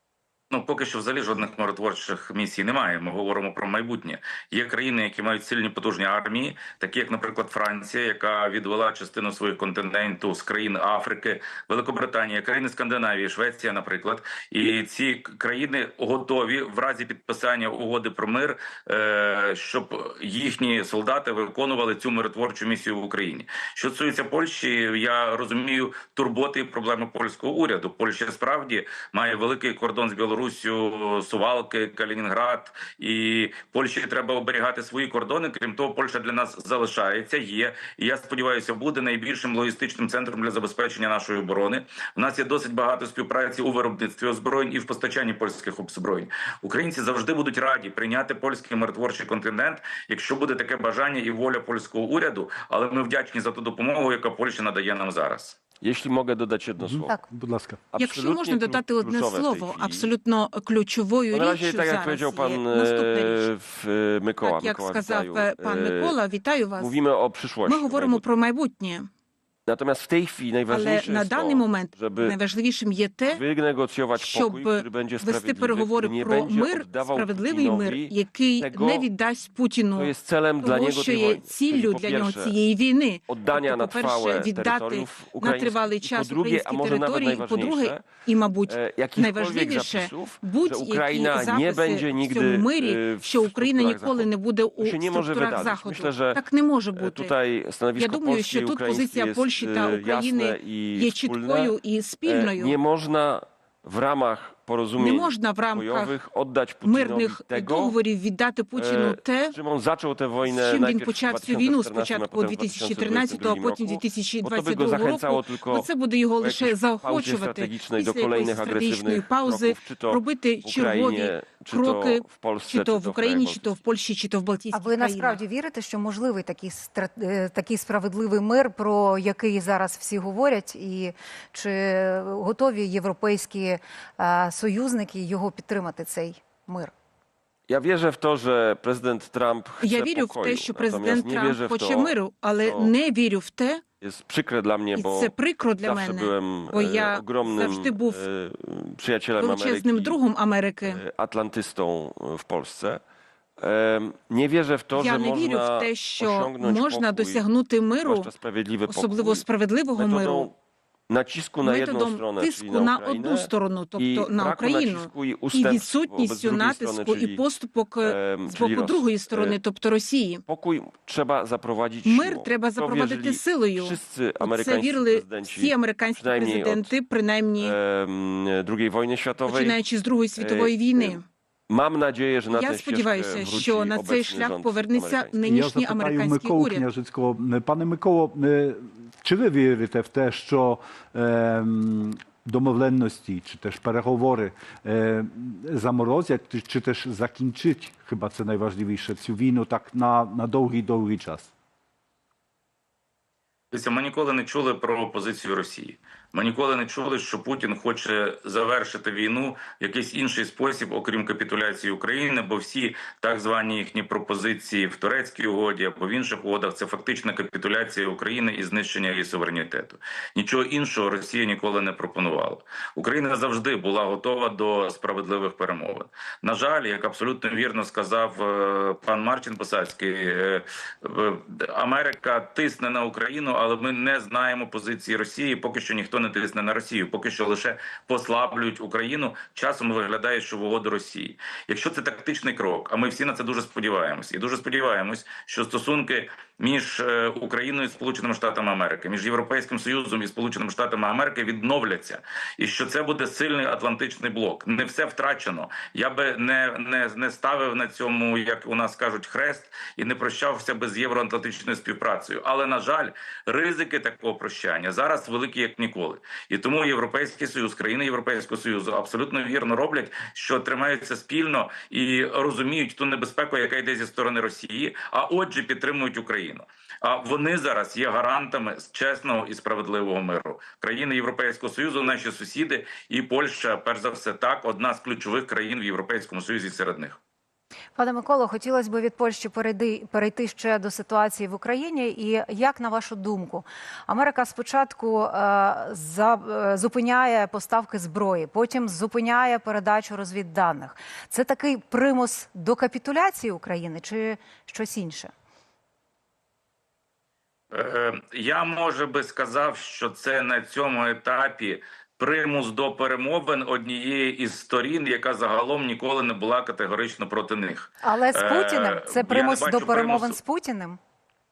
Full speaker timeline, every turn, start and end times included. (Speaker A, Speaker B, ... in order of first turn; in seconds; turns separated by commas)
Speaker A: 0.5-55.6, Speaker B: 55.8-57.1, Speaker C: 56.8-57.8, Speaker B: 57.9-60.1, Speaker D: 58.0-63.5, Speaker B: 61.3-66.2, Speaker D: 64.4-66.9, Speaker B: 66.8-68.2, Speaker D: 67.7-69.1, Speaker B: 69.7-72.4, Speaker D: 70.7-73.4, Speaker B: 73.3-79.1, Speaker D: 74.2-97.3, Speaker B: 79.9-82.5, Speaker B: 83.3-88.0, Speaker B: 88.7-94.3, Speaker B: 94.8-96.4, Speaker B: 97.0-101.7, Speaker D: 98.0-102.8, Speaker B: 102.2-108.0, Speaker D: 105.0-106.1, Speaker D: 106.8-109.5, Speaker B: 108.8-115.9, Speaker D: 110.5-125.4, Speaker B: 116.4-123.8, Speaker E: 124.7-136.9, Speaker B: 137.7-142.9, Speaker D: 139.8-143.8, Speaker B: 144.0-150.2, Speaker D: 144.9-148.2, Speaker D: 149.4-151.0, Speaker B: 150.8-153.0, Speaker B: 153.6-157.4, Speaker D: 154.9-158.3, Speaker B: 158.0-160.5, Speaker D: 158.9-160.5, Speaker B: 161.1-167.4, Speaker D: 161.6-170.4, Speaker B: 168.0-169.6, Speaker B: 170.5-176.9, Speaker D: 172.1-177.7, Speaker B: 177.6-179.8, Speaker D: 179.4-181.2, Speaker B: 180.4-185.4, Speaker D: 182.5-186.8, Speaker C: 185.4-201.5, Speaker A: 203.7-287.2, Speaker E: 287.9-305.3, Speaker A: 307.7-320.4, Speaker E: 318.0-321.0